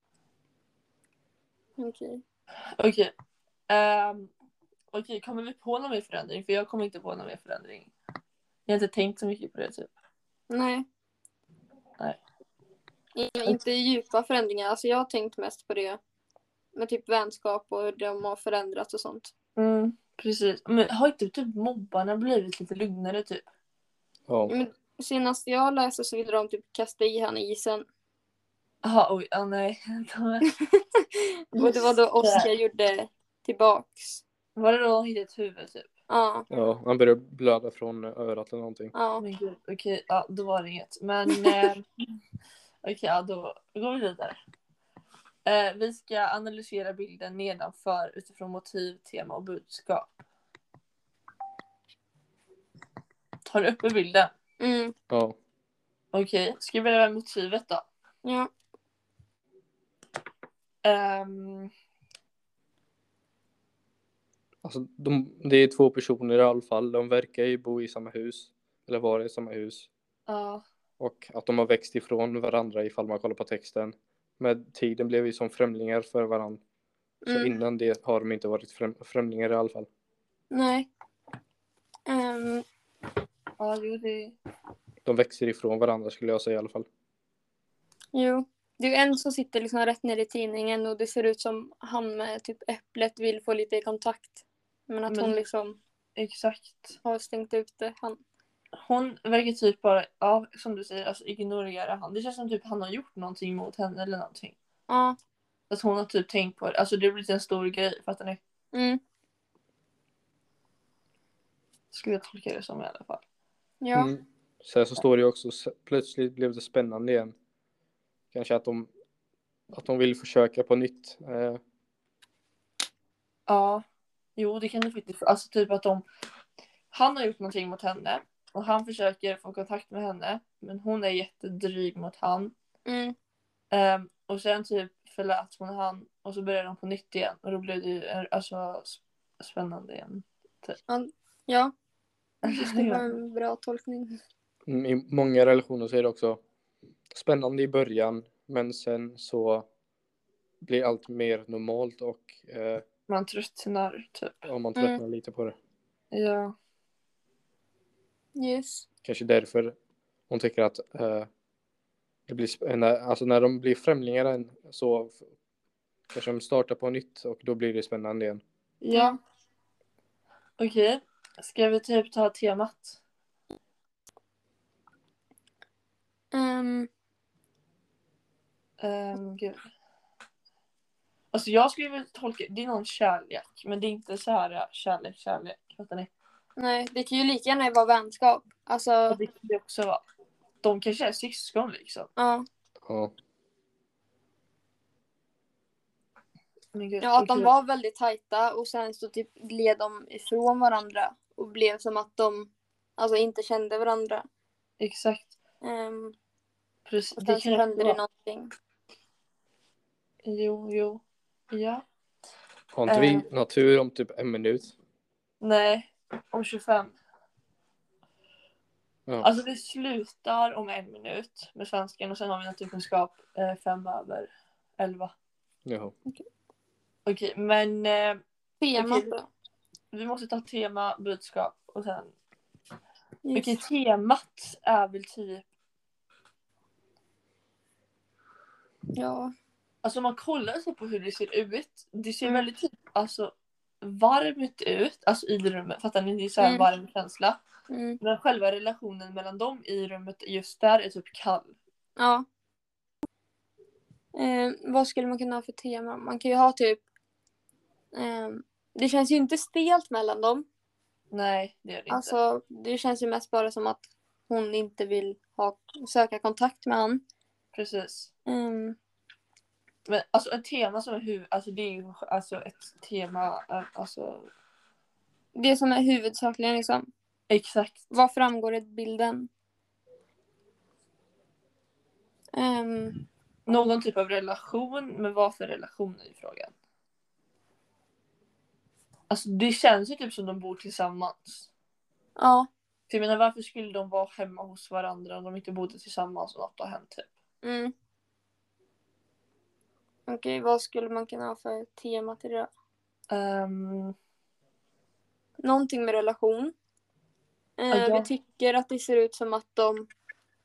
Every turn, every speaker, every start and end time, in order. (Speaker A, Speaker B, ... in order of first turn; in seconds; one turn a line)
Speaker A: 1.8-2.2
Speaker B: 2.8-3.1
Speaker B: 3.7-4.3
Speaker B: 4.9-7.9
Speaker B: 8.7-9.9
Speaker A: 10.5-10.8
Speaker A: 13.2-16.0
Speaker A: 16.7-19.3
Speaker B: 19.6-23.4
Speaker C: 24.3-24.5
Speaker A: 24.5-27.8
Speaker B: 28.8-30.5
Speaker A: 30.5-34.2
Speaker B: 31.5-32.5
Speaker B: 34.5-35.9
Speaker A: 36.1-36.5
Speaker C: 36.5-38.9
Speaker A: 38.9-39.2
Speaker B: 39.2-41.9
Speaker A: 41.3-41.7
Speaker B: 42.8-44.4
Speaker B: 45.4-50.1
Speaker B: 53.5-54.3
Speaker A: 54.6-54.9
Speaker C: 55.1-55.4
Speaker B: 56.1-57.8
Speaker A: 58.2-58.5
Speaker B: 60.8-61.7
Speaker C: 64.6-69.9
Speaker B: 70.3-70.6
Speaker C: 71.0-76.6
Speaker A: 77.2-77.5
Speaker C: 77.3-79.9
Speaker A: 80.5-80.9
Speaker A: 82.1-82.6
Speaker B: 83.6-84.3
Speaker C: 85.0-86.9
Speaker A: 88.1-94.3
Speaker A: 94.9-95.8
Speaker B: 95.1-95.4
Speaker B: 96.2-97.0
Speaker A: 97.0-98.2
Speaker B: 98.8-104.5
Speaker A: 104.9-105.2
Speaker B: 105.7-108.4
Speaker A: 108.7-109.0
Speaker B: 111.9-113.2
Speaker A: 113.8-114.1
Speaker C: 113.9-117.3
Speaker C: 118.3-118.9
Speaker C: 119.7-121.6
Speaker B: 123.5-123.8
Speaker B: 124.4-126.0
Speaker B: 126.9-132.5
Speaker A: 132.8-133.1
Speaker B: 133.7-140.8
Speaker A: 140.9-141.7
Speaker B: 142.4-143.0
Speaker A: 142.4-144.2
Speaker C: 144.7-146.4
Speaker C: 147.1-149.7
Speaker C: 150.6-152.8
Speaker B: 153.1-154.4
Speaker C: 154.4-155.6
Speaker B: 156.1-156.5
Speaker A: 158.3-158.8
Speaker C: 159.0-159.7
Speaker C: 160.3-161.3
Speaker C: 162.3-165.2
Speaker C: 166.1-168.4
Speaker B: 168.8-169.2
Speaker B: 170.6-173.0
Speaker A: 176.3-176.9
Speaker B: 178.8-179.6
Speaker B: 181.3-186.1
Speaker A: 186.6-189.2
Speaker B: 189.1-190.0
Speaker B: 190.6-192.1
Speaker A: 192.2-192.4
Speaker C: 192.8-193.1
Speaker B: 196.7-197.5
Speaker A: 197.0-204.2
Speaker B: 204.8-205.3
Speaker A: 205.6-206.1
Speaker B: 206.8-208.0
Speaker A: 207.2-208.5
Speaker B: 210.2-211.8
Speaker C: 212.7-214.7
Speaker B: 212.9-213.2
Speaker B: 215.4-216.9
Speaker B: 219.2-225.1
Speaker C: 225.7-225.9
Speaker B: 227.1-228.2
Speaker A: 228.6-229.2
Speaker B: 228.7-229.1
Speaker B: 229.9-232.1
Speaker A: 233.2-233.6
Speaker B: 233.3-235.4
Speaker A: 238.9-239.3
Speaker B: 239.8-247.4
Speaker A: 246.4-246.7
Speaker A: 247.7-248.0
Speaker B: 248.0-251.5
Speaker A: 252.0-252.2
Speaker A: 254.1-256.8
Speaker A: 257.9-260.4
Speaker B: 261.1-262.1
Speaker A: 261.9-267.0
Speaker B: 267.5-268.1
Speaker A: 268.3-268.8
Speaker B: 269.9-274.3
Speaker A: 275.3-276.9
Speaker B: 277.3-277.8
Speaker A: 277.9-279.3
Speaker A: 282.3-283.0
Speaker B: 283.5-286.5
Speaker B: 289.1-291.5
Speaker A: 292.2-292.5
Speaker B: 292.9-297.1
Speaker A: 297.4-297.7
Speaker A: 300.1-302.5
Speaker B: 303.1-303.9
Speaker A: 305.4-306.5
Speaker A: 307.6-309.9
Speaker B: 307.7-308.1